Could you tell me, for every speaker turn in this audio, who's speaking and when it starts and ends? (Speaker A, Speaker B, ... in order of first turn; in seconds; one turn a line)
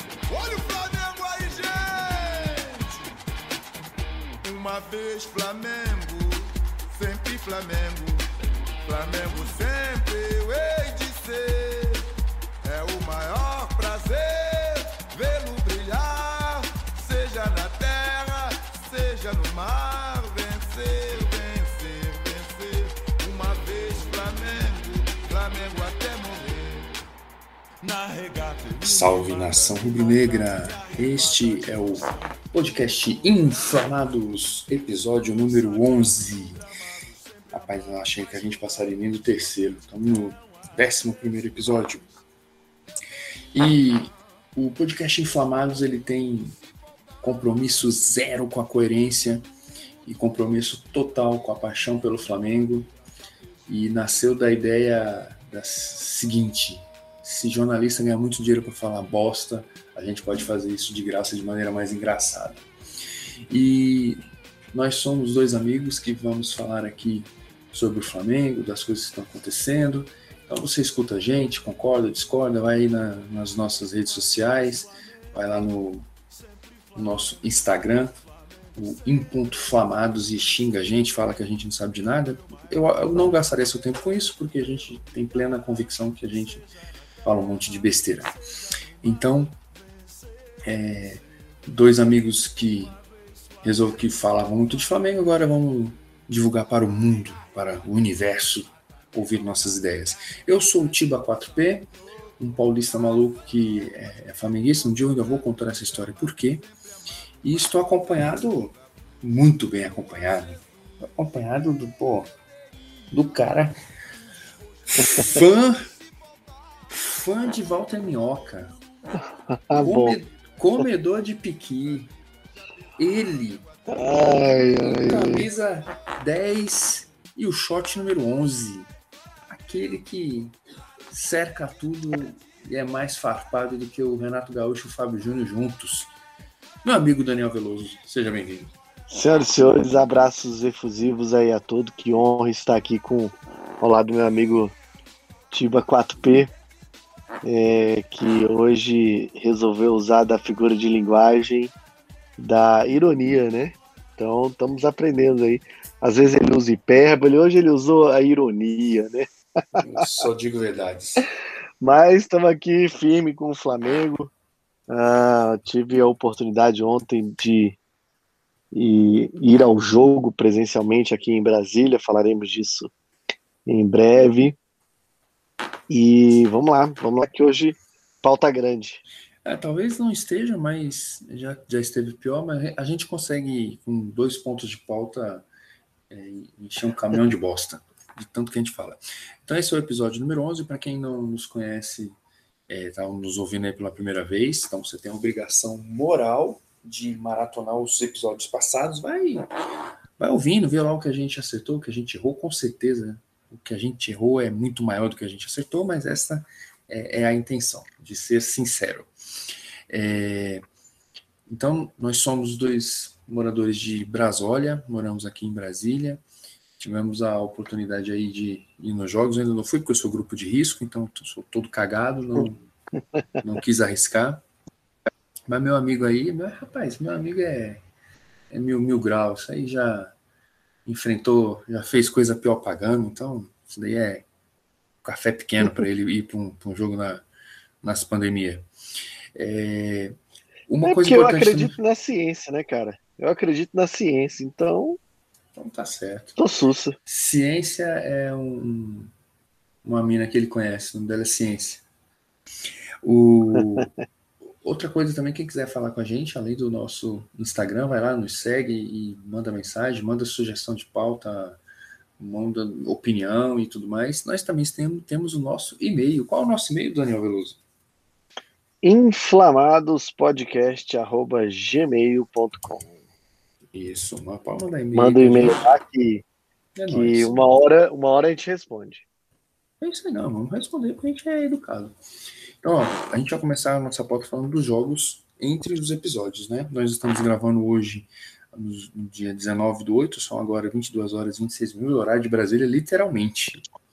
Speaker A: 0.3-3.0
Speaker A: 4.4-8.3
Speaker A: 8.8-12.1
Speaker A: 12.6-27.0
Speaker A: 27.8-32.2
Speaker B: 28.8-36.6
Speaker B: 37.5-42.0
Speaker B: 43.5-46.5
Speaker B: 47.2-49.5
Speaker B: 50.0-52.9
Speaker B: 53.7-62.6
Speaker B: 63.5-76.1
Speaker B: 76.9-78.2
Speaker B: 78.7-86.7
Speaker B: 87.2-88.4
Speaker B: 89.0-89.6
Speaker B: 90.6-93.0
Speaker B: 93.6-106.7
Speaker B: 107.4-112.3
Speaker B: 113.1-113.8
Speaker B: 114.9-115.9
Speaker C: 115.0-115.4
Speaker B: 116.9-118.8
Speaker C: 119.5-120.2
Speaker B: 119.7-122.1
Speaker B: 123.0-128.9
Speaker C: 123.9-125.5
Speaker B: 129.5-130.5
Speaker B: 131.1-136.1
Speaker B: 136.8-138.7
Speaker C: 139.1-144.7
Speaker C: 145.5-146.5
Speaker C: 147.4-151.7
Speaker C: 152.4-159.8
Speaker B: 159.8-161.2
Speaker C: 161.8-164.3
Speaker C: 164.9-167.8
Speaker C: 168.7-172.9
Speaker C: 173.7-174.6
Speaker C: 175.9-179.0
Speaker B: 179.4-185.4
Speaker B: 186.1-192.2
Speaker B: 192.7-199.5
Speaker B: 200.2-209.1
Speaker B: 209.9-210.6
Speaker B: 211.5-216.2
Speaker B: 216.8-222.6
Speaker B: 223.4-224.4
Speaker B: 225.5-227.8
Speaker B: 228.5-230.1
Speaker B: 230.8-234.2
Speaker B: 235.0-237.2
Speaker B: 237.8-238.7
Speaker B: 239.3-241.7
Speaker C: 240.8-245.0
Speaker B: 245.6-246.4
Speaker C: 246.4-246.9
Speaker B: 247.1-249.1
Speaker B: 249.8-251.8
Speaker B: 253.0-253.9
Speaker B: 254.6-261.6
Speaker B: 262.2-267.6
Speaker C: 268.8-272.9
Speaker B: 273.7-275.7
Speaker C: 274.9-276.2
Speaker B: 276.7-277.4
Speaker C: 276.9-279.1
Speaker B: 279.8-282.0
Speaker B: 282.6-293.6